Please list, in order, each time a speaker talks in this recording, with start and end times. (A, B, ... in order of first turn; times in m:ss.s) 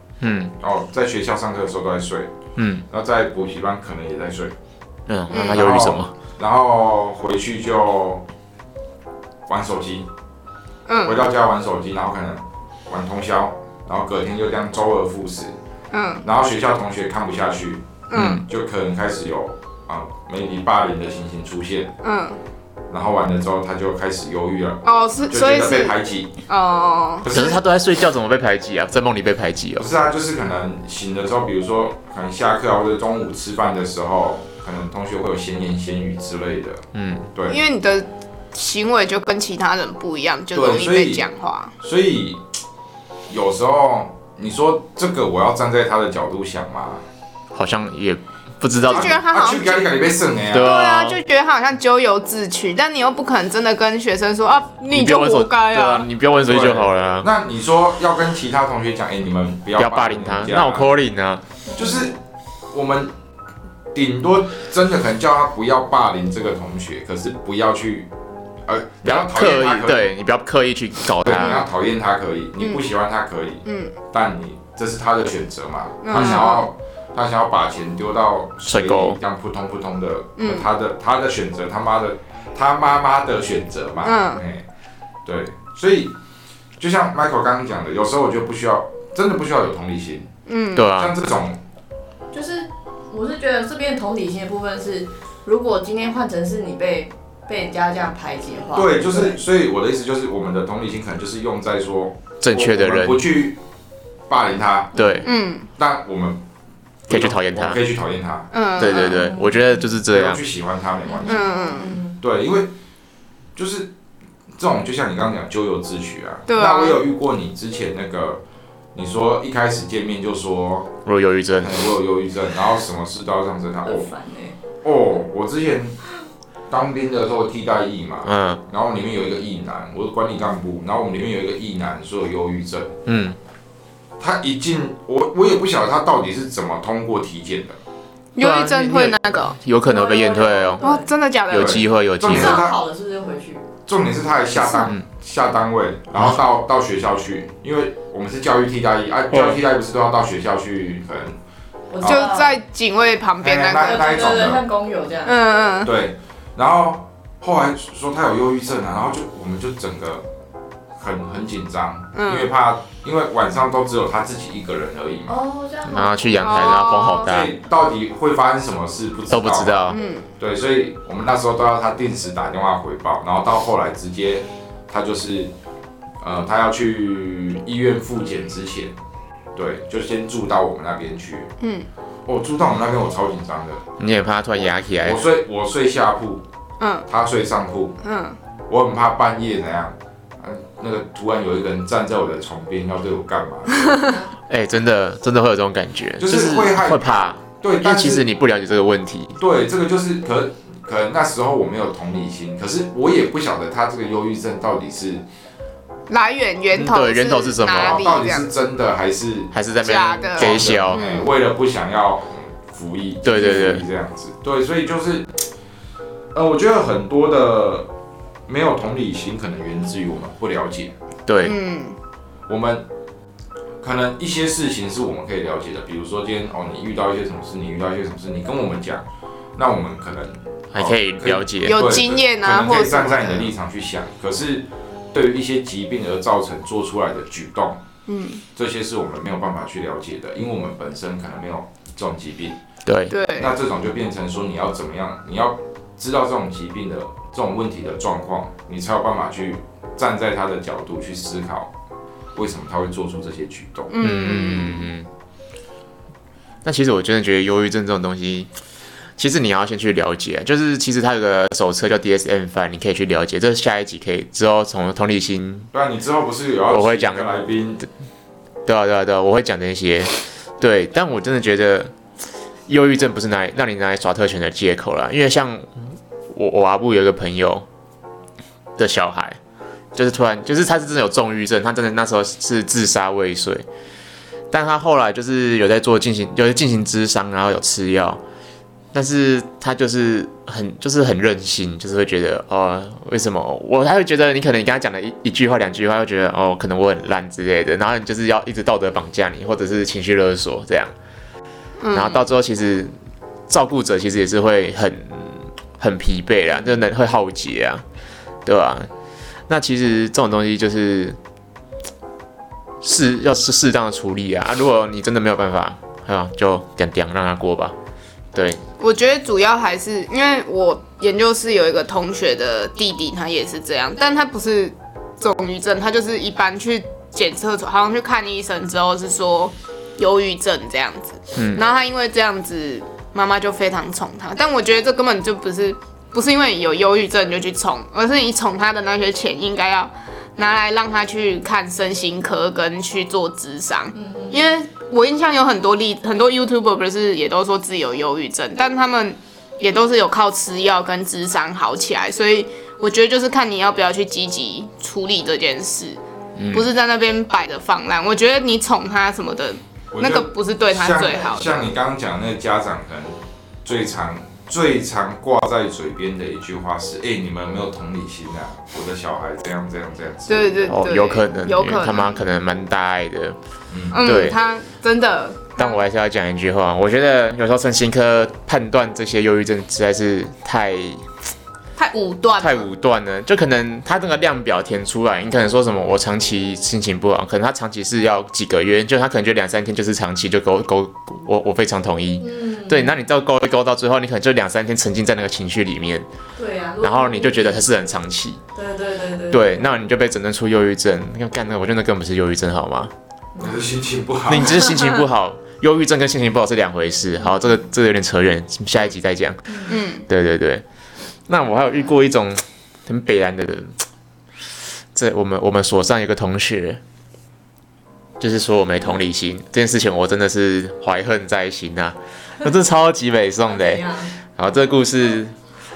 0:00.2-0:00.5 A
0:00.6-0:02.3 B
0:02.6-0:02.8 A
0:02.9-0:04.6 B
0:05.1-0:06.1 A
0:05.3-0:05.6 C
0:05.4-0:08.2 B
0:09.5-0:10.1 B
0:10.9-0:11.2 C
0:11.0-0:15.6 B
0:15.9-0:16.2 C
0:16.2-0:22.0 B
0:18.1-0:18.4 C
0:18.1-0:18.4 A
0:22.0-0:22.4 C
0:22.9-0:26.3 B
0:24.8-0:27.3 C
0:27.2-0:27.6 B
0:27.3-0:29.9 A
0:29.8-0:36.8 B
0:36.9-0:37.3 A
0:37.4-0:37.6 B
0:37.5-0:41.7 C
0:40.5-0:41.2 B
0:41.8-0:42.4 B
0:43.3-0:47.0 B
0:47.5-0:49.2 A
0:48.9-0:50.0 C
0:48.9-0:50.8 B
0:50.5-0:51.2 A
0:50.5-0:56.1 C
0:54.9-0:57.3 A
0:56.4-1:00.9 B
0:59.8-1:01.4 A
1:01.7-1:02.1 D
1:01.8-1:02.2 B
1:02.7-1:03.1 B
1:03.9-1:08.1 B
1:08.6-1:10.1 B
1:09.0-1:11.6 A
1:11.2-1:24.6 B
1:11.4-1:11.6 C
1:13.6-1:13.9 C
1:16.0-1:16.7 C
1:16.1-1:16.4 A
1:18.6-1:19.2 A
1:20.4-1:20.7 C
1:24.0-1:24.4 C
1:25.2-1:26.1 B
1:26.8-1:30.3 B
1:30.5-1:30.9 C
1:30.8-1:31.1 A
1:31.0-1:31.6 B
1:32.3-1:39.4 D
1:38.7-1:43.6 B
1:42.4-1:43.2 A
1:44.3-1:45.0 B
1:45.0-1:45.3 D
1:45.0-1:45.3 A
1:45.2-1:45.7 C
1:45.7-1:46.4 B
1:47.1-1:47.8 A
1:47.1-1:48.5 B
1:48.5-1:49.2 C
1:48.8-1:50.4 A
1:48.9-1:49.9 D
1:50.1-1:51.5 B
1:51.1-1:52.2 D
1:51.2-1:52.0 C
1:52.2-1:52.7 B
1:53.6-1:53.9 B
1:54.6-1:58.4 B
1:56.5-1:57.0 C
1:58.9-2:00.9 B
2:01.0-2:01.9 A
2:01.6-2:04.1 B
2:03.8-2:04.6 D
2:04.8-2:06.0 B
2:06.7-2:13.0 B
2:08.2-2:08.6 A
2:13.1-2:13.4 A
2:14.2-2:17.8 B
2:18.4-2:19.6 C
2:18.4-2:20.8 A
2:19.8-2:21.1 D
2:20.8-2:21.9 C
2:21.5-2:22.7 A
2:21.5-2:22.8 B
2:22.3-2:23.7 D
2:23.9-2:31.4 B
2:29.3-2:29.6 A
2:31.9-2:32.6 D
2:32.0-2:32.3 B
2:32.0-2:34.5 C
2:33.4-2:34.6 B
2:33.8-2:35.4 D
2:35.2-2:35.9 C
2:35.8-2:40.3 B
2:41.0-2:45.4 B
2:42.2-2:42.5 C
2:45.3-2:46.6 D
2:45.9-2:47.5 A
2:46.4-2:47.4 C
2:47.2-2:49.8 B
2:49.3-2:50.0 A
2:49.9-2:50.3 C
2:50.4-2:55.5 B
2:56.2-2:59.0 B
2:59.6-3:01.5 B
3:01.6-3:01.9 C
3:02.3-3:03.8 B
3:04.0-3:05.2 A
3:05.0-3:06.4 B
3:06.8-3:07.1 C
3:07.1-3:08.0 B
3:08.0-3:08.4 C
3:08.7-3:14.2 B
3:14.5-3:19.4 A
3:16.2-3:18.3 B
3:19.4-3:25.2 B
3:26.1-3:28.5 C
3:26.7-3:28.1 A
3:27.7-3:29.5 B
3:29.5-3:31.0 A
3:29.8-3:31.3 C
3:30.3-3:35.3 B
3:33.2-3:33.9 A
3:36.3-3:37.9 B
3:38.5-3:41.0 B
3:41.3-3:41.6 A
3:41.4-3:42.0 C
3:42.5-3:42.8 B
3:43.8-3:49.0 B
3:49.6-3:57.8 B
3:50.7-3:51.8 A
3:51.6-3:53.5 C
3:58.1-3:58.4 C
3:58.6-4:02.6 B
4:02.9-4:03.1 A
4:03.1-4:03.5 C
4:03.4-4:11.7 B
4:12.3-4:13.9 B
4:13.9-4:14.9 C
4:14.0-4:15.1 A
4:16.6-4:18.5 A
4:19.2-4:25.7 A
4:25.7-4:27.9 B
4:26.7-4:27.4 A
4:28.7-4:31.9 A
4:32.7-4:37.7 A
4:38.8-4:39.4 A
4:39.9-4:43.6 A
4:44.5-4:48.2 A
4:48.9-5:00.9 A
5:01.8-5:02.2 C
5:01.9-5:02.9 A
5:03.5-5:07.8 A
5:08.4-5:08.9 A
5:09.5-5:11.2 A
5:12.8-5:17.8 A
5:18.3-5:18.6 A
5:18.8-5:56.0 C
5:31.4-5:31.6 A
5:43.9-5:44.5 D
5:56.4-5:56.7 A
5:56.5-6:01.7 C
5:59.9-6:10.8 B
6:10.3-6:12.2 C
6:10.7-6:13.4 A
6:13.7-6:14.0 B
6:13.9-6:15.8 C
6:14.0-6:14.4 A
6:15.6-6:21.1 A
6:21.8-6:22.7 C
6:22.4-6:36.1 A
6:32.2-6:32.9 D
6:36.4-6:37.6 D
6:36.8-6:38.4 A
6:38.6-6:39.8 D
6:39.3-6:42.9 A
6:43.4-6:44.8 B
6:44.3-6:50.6 A
6:49.7-6:50.0 C
6:51.3-6:53.8 A
6:54.9-6:56.8 A
6:58.2-7:03.8 A
7:03.5-7:04.1 D
7:04.4-7:05.4 A